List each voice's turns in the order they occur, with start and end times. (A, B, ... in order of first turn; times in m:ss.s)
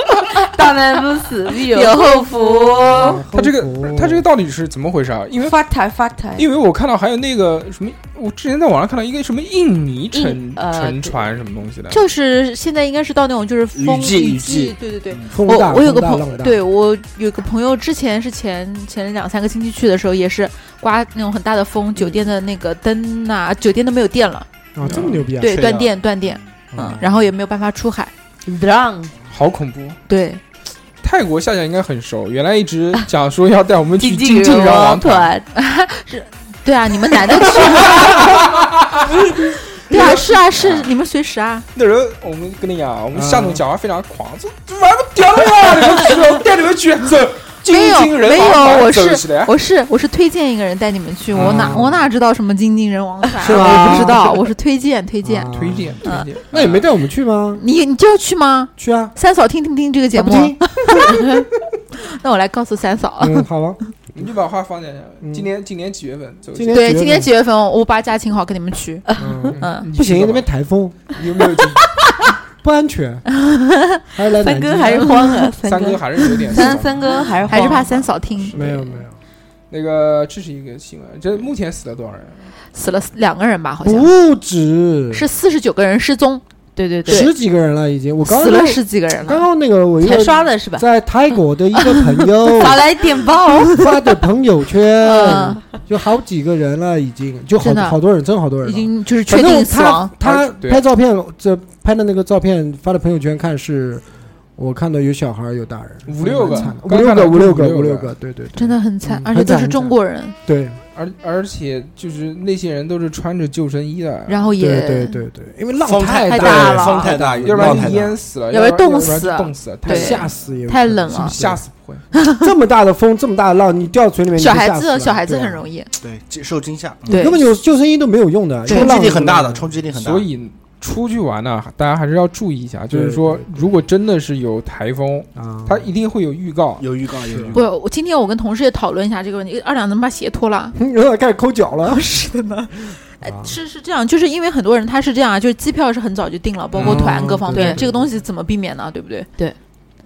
0:00.3-0:03.2 A
0:01.7-0:03.1 B
0:02.8-0:04.2 C
0:03.3-0:05.5 D
0:05.4-0:06.4 A
0:06.4-0:12.0 D
0:10.1-0:11.2 A
0:11.9-0:24.5 B
0:13.7-0:15.3 E
0:15.3-0:16.6 C
0:24.7-0:25.6 C
0:24.8-0:25.2 D
0:25.4-0:28.1 B
0:25.4-0:26.5 E
0:26.7-0:27.3 C
0:28.4-0:29.1 A
0:29.3-0:30.0 D
0:30.1-0:30.4 B
0:31.0-0:35.3 D
0:34.0-0:35.5 A
0:35.5-0:38.4 B
0:38.1-0:39.1 D
0:39.8-0:41.6 B
0:39.9-0:40.2 C
0:39.9-0:40.9 D
0:41.7-0:49.5 D
0:43.1-0:43.6 C
0:47.7-0:55.5 B
0:51.3-0:52.0 C
0:51.3-0:51.8 D
0:53.4-0:54.3 C
0:55.2-0:57.6 C
0:55.5-0:56.8 D
0:57.6-1:01.4 B
0:58.8-0:59.1 C
1:00.1-1:01.4 C
1:02.0-1:03.5 B
1:03.2-1:04.3 C
1:04.1-1:06.9 D
1:05.2-1:05.5 C
1:06.5-1:07.3 C
1:06.7-1:09.0 B
1:09.2-1:11.2 C
1:09.4-1:10.5 D
1:09.6-1:09.9 B
1:11.1-1:11.8 D
1:12.6-1:13.2 C
1:14.1-1:15.2 C
1:14.4-1:18.1 A
1:15.6-1:17.0 D
1:16.5-1:17.5 C
1:17.5-1:18.8 B
1:18.4-1:18.8 D
1:18.5-1:19.2 C
1:19.7-1:22.5 D
1:22.7-1:24.1 B
1:23.8-1:25.2 C
1:25.1-1:26.4 B
1:26.8-1:27.3 A
1:27.0-1:27.3 B
1:27.0-1:32.8 C
1:28.2-1:29.4 B
1:30.0-1:30.8 A
1:31.8-1:33.9 A
1:33.6-1:44.0 C
1:35.0-1:35.6 B
1:37.6-1:38.0 B
1:38.6-1:40.1 B
1:40.2-1:40.8 D
1:44.6-1:50.8 C
1:46.1-1:48.1 D
1:46.5-1:46.7 B
1:48.5-1:50.3 B
1:50.9-1:54.4 D
1:54.3-1:55.2 B
1:54.6-1:56.8 C
1:55.8-1:58.2 E
1:56.1-1:57.1 B
1:56.6-2:00.4 D
1:57.4-1:58.0 C
1:58.5-2:01.3 B
1:59.8-2:01.6 C
2:01.1-2:02.0 D
2:02.2-2:02.5 B
2:02.3-2:05.6 C
2:04.4-2:05.9 B
2:06.0-2:07.2 E
2:07.1-2:07.4 B
2:07.1-2:09.8 C
2:08.6-2:10.2 E
2:08.7-2:08.9 B
2:09.9-2:16.8 D
2:12.9-2:13.8 C
2:15.3-2:15.9 C
2:16.8-2:17.6 E
2:17.3-2:17.6 C
2:17.5-2:20.8 B
2:20.8-2:22.1 C
2:21.9-2:29.3 B
2:23.2-2:23.6 C
2:26.8-2:28.1 C
2:26.8-2:27.4 E
2:27.5-2:27.8 A